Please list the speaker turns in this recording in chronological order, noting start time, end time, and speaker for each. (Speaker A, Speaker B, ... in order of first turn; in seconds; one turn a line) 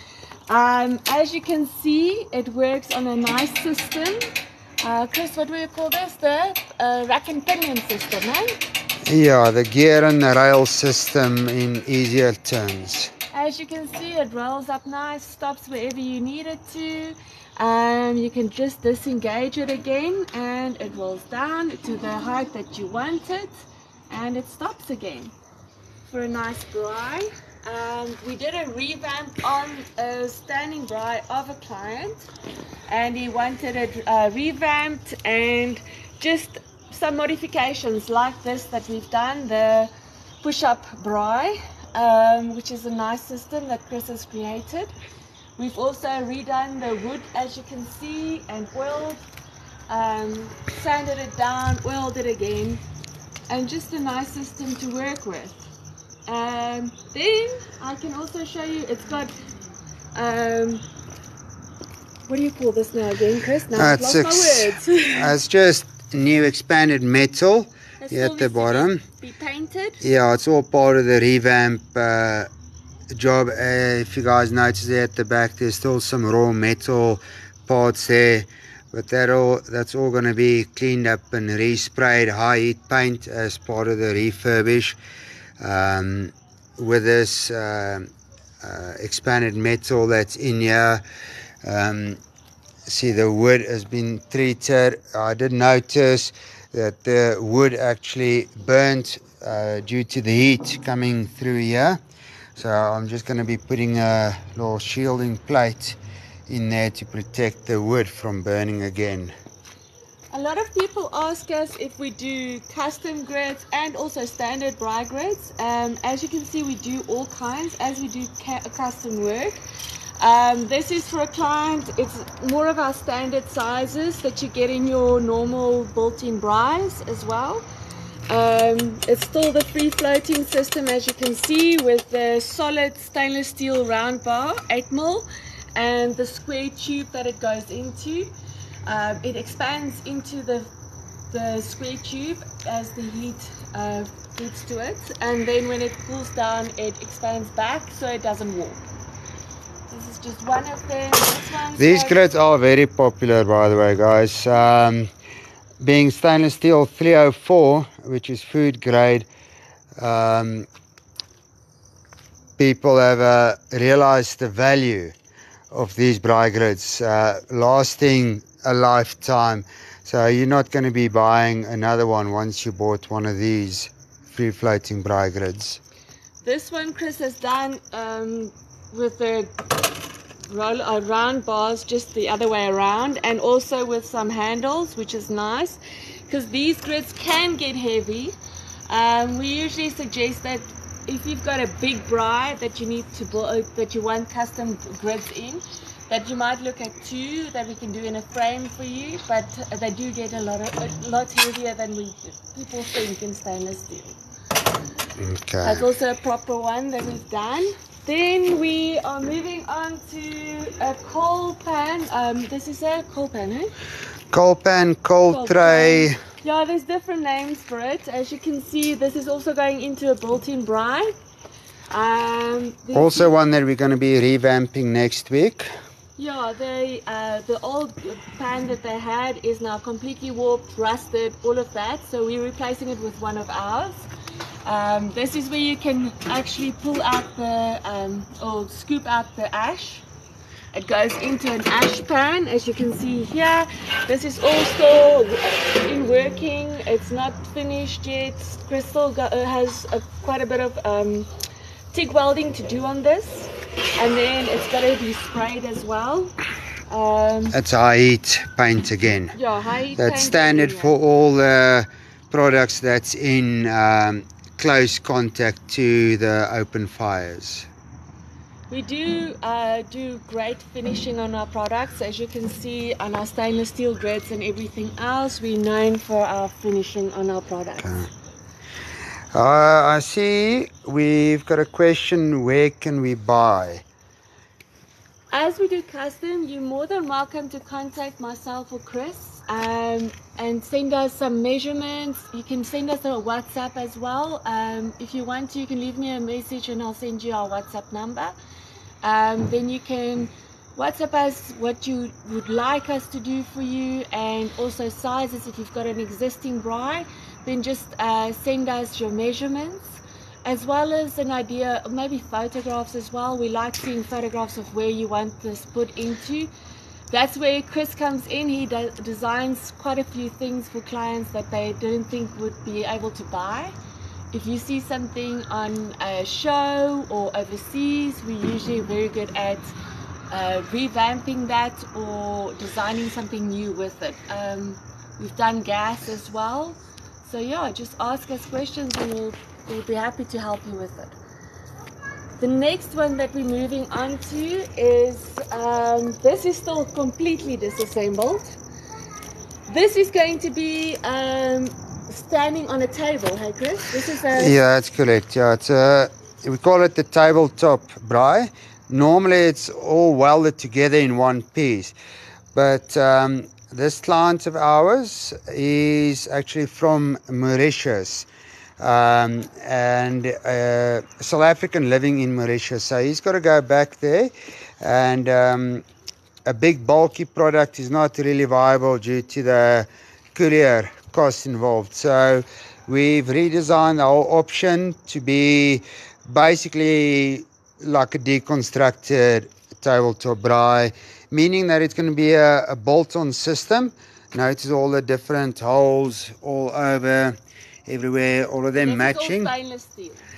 Speaker A: 0.5-4.2
Speaker A: 4.8-8.6
Speaker B: 9.1-13.1
Speaker A: 13.3-23.5
Speaker A: 24.1-25.3
Speaker A: 26.1-32.3
Speaker A: 32.9-39.9
Speaker A: 40.4-44.9
Speaker A: 45.6-49.2
Speaker A: 49.9-52.8
Speaker A: 53.5-55.6
Speaker A: 56.3-59.3
Speaker A: 60.1-60.8
Speaker A: 62.2-65.3
Speaker B: 63.7-69.0
Speaker A: 68.0-70.0
Speaker B: 70.0-72.5
Speaker B: 73.1-85.0
Speaker B: 85.6-88.1
Speaker B: 88.6-91.0
Speaker B: 91.6-92.2
Speaker B: 92.8-102.0
Speaker B: 102.5-109.3
Speaker A: 110.3-119.6
Speaker A: 120.2-127.6
Speaker A: 128.3-138.3
Speaker A: 138.8-140.7
Speaker A: 141.3-148.8
Speaker A: 149.9-152.2
Speaker B: 151.8-155.1
Speaker B: 155.8-159.3
Speaker B: 160.0-160.7
Speaker B: 162.6-165.1
Speaker B: 165.7-175.8
Speaker A: 176.4-179.5
Speaker A: 180.4-188.3
Speaker A: 188.9-204.2
Speaker B: 205.2-205.8
Speaker A: 205.6-213.7
Speaker B: 214.3-216.2
Speaker A: 215.3-221.1
Speaker A: 221.9-223.3
Speaker B: 222.9-225.7
Speaker A: 226.2-234.1
Speaker A: 234.6-240.0
Speaker A: 240.7-251.3
Speaker A: 251.9-256.3
Speaker A: 256.9-257.6
Speaker B: 257.5-259.3
Speaker A: 259.3-260.9
Speaker B: 259.9-267.7
Speaker A: 268.7-278.1
Speaker B: 277.8-278.1
Speaker B: 279.3-283.8
Speaker A: 285.3-298.3
Speaker A: 299.0-316.5
Speaker A: 317.1-323.7
Speaker A: 324.3-329.7
Speaker A: 330.3-341.1
Speaker A: 342.4-348.6
Speaker A: 349.7-354.6
Speaker B: 354.3-361.9
Speaker B: 362.5-368.3
Speaker B: 368.8-375.8
Speaker B: 376.4-397.3
Speaker B: 397.9-399.5
Speaker A: 398.8-400.2